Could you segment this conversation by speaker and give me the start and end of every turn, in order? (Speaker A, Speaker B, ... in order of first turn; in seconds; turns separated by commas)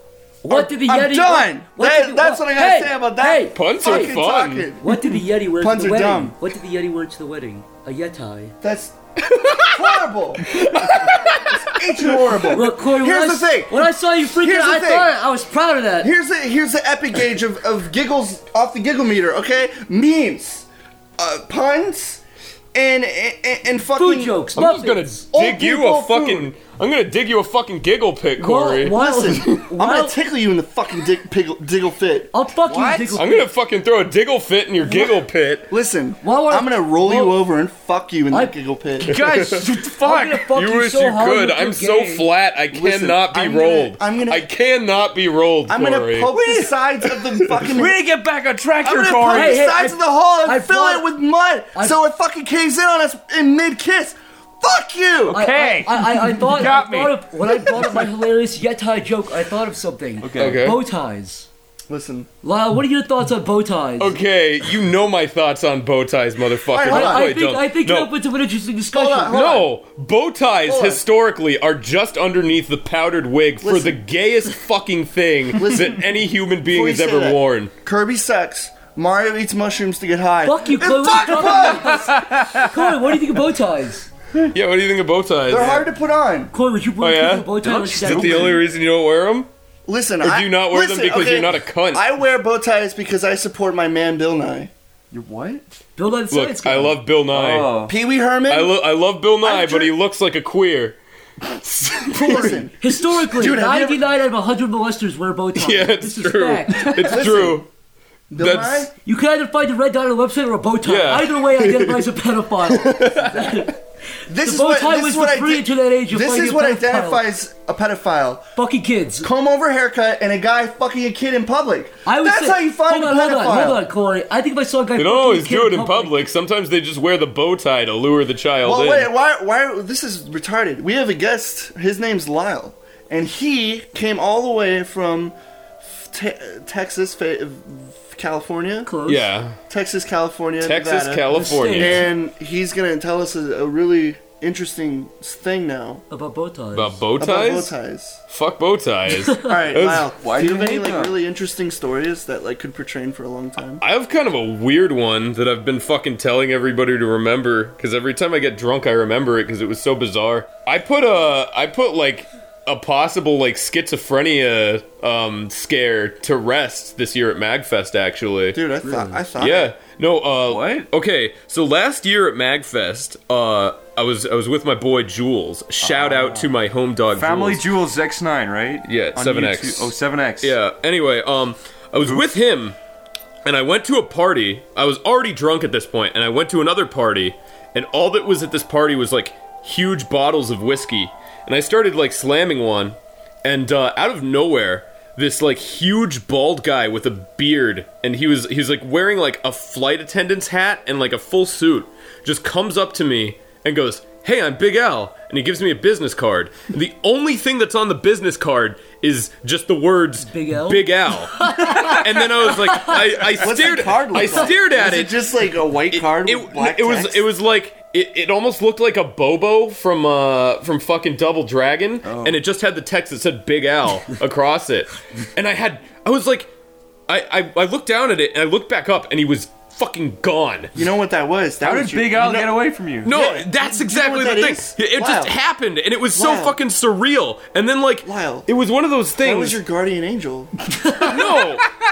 Speaker A: 0.4-4.1, Speaker B: 0.5-6.3, Speaker C: 3.5-4.7, Speaker A: 4.8-8.5, Speaker B: 8.6-8.9, Speaker C: 9.2-9.9, Speaker B: 9.6-15.1, Speaker C: 10.4-12.5, Speaker A: 12.5-16.1, Speaker B: 16.0-20.7, Speaker B: 21.2-22.2, Speaker B: 22.7-24.4, Speaker A: 24.0-25.2, Speaker C: 24.6-28.9, Speaker B: 25.3-26.5, Speaker A: 28.4-30.2, Speaker B: 28.9-33.0, Speaker A: 32.3-33.5, Speaker D: 32.7-33.2, Speaker C: 33.1-35.7, Speaker B: 34.8-39.1, Speaker A: 36.2-37.4, Speaker A: 38.3-38.5, Speaker D: 39.0-40.4, Speaker C: 39.0-46.3, Speaker A: 39.9-42.3, Speaker B: 42.7-44.5, Speaker B: 45.7-48.0, Speaker D: 47.5-49.6, Speaker B: 48.8-55.8, Speaker A: 49.3-51.1, Speaker D: 55.2-58.1, Speaker A: 55.3-61.5, Speaker B: 57.6-58.0, Speaker D: 60.2-60.7, Speaker C: 60.4-60.8, Speaker B: 61.9-62.3, Speaker A: 62.4-64.2, Speaker C: 64.0-68.1, Speaker B: 66.7-67.3, Speaker A: 66.9-69.4, Speaker B: 68.9-69.7, Speaker C: 69.3-77.7, Speaker B: 70.7-71.0, Speaker B: 73.6-74.0, Speaker B: 75.5-76.1, Speaker B: 76.7-82.2, Speaker A: 80.4-84.1, Speaker D: 81.5-82.7, Speaker C: 84.5-85.8, Speaker B: 85.5-86.5, Speaker A: 86.5-88.6, Speaker C: 87.0-89.5, Speaker D: 87.6-88.6, Speaker B: 89.8-94.7, Speaker C: 90.2-92.0, Speaker D: 95.1-95.6, Speaker A: 96.0-97.0, Speaker C: 96.3-97.8, Speaker D: 97.3-97.9, Speaker B: 97.8-98.8, Speaker C: 98.5-101.0, Speaker B: 99.4-100.0, Speaker C: 101.7-102.6, Speaker B: 102.1-104.1, Speaker A: 102.1-107.1, Speaker C: 105.5-107.7, Speaker B: 106.8-107.6, Speaker B: 108.3-108.9, Speaker C: 108.4-108.9, Speaker A: 109.0-113.8, Speaker C: 110.8-112.0, Speaker B: 114.3-118.4, Speaker A: 114.4-117.3, Speaker A: 118.5-119.3, Speaker B: 119.2-123.8, Speaker A: 122.0-126.2, Speaker C: 125.0-129.1, Speaker B: 128.6-138.9, Speaker A: 138.8-139.3, Speaker C: 139.1-139.6, Speaker B: 139.7-146.0, Speaker C: 140.6-142.1, Speaker A: 141.3-142.1, Speaker A: 146.1-147.0, Speaker C: 146.7-147.7, Speaker B: 147.2-148.2, Speaker C: 148.3-150.1, Speaker B: 149.4-153.8, Speaker D: 150.2-151.2, Speaker C: 153.8-168.6, Speaker B: 168.5-169.7, Speaker A: 168.8-169.2, Speaker C: 169.4-177.7, Speaker D: 170.5-170.9, Speaker D: 175.8-176.5, Speaker D: 177.1-180.6, Speaker C: 178.8-182.8, Speaker D: 182.0-182.4, Speaker C: 183.4-215.2, Speaker A: 210.2-213.0, Speaker D: 211.6-213.3, Speaker B: 213.4-217.3, Speaker C: 215.9-226.5, Speaker D: 222.0-222.4, Speaker C: 227.1-230.7, Speaker B: 230.7-235.3, Speaker D: 231.6-233.1, Speaker C: 233.0-239.6, Speaker B: 236.1-236.6, Speaker B: 238.0-238.5, Speaker B: 239.2-240.5, Speaker A: 240.8-241.1, Speaker C: 241.0-241.7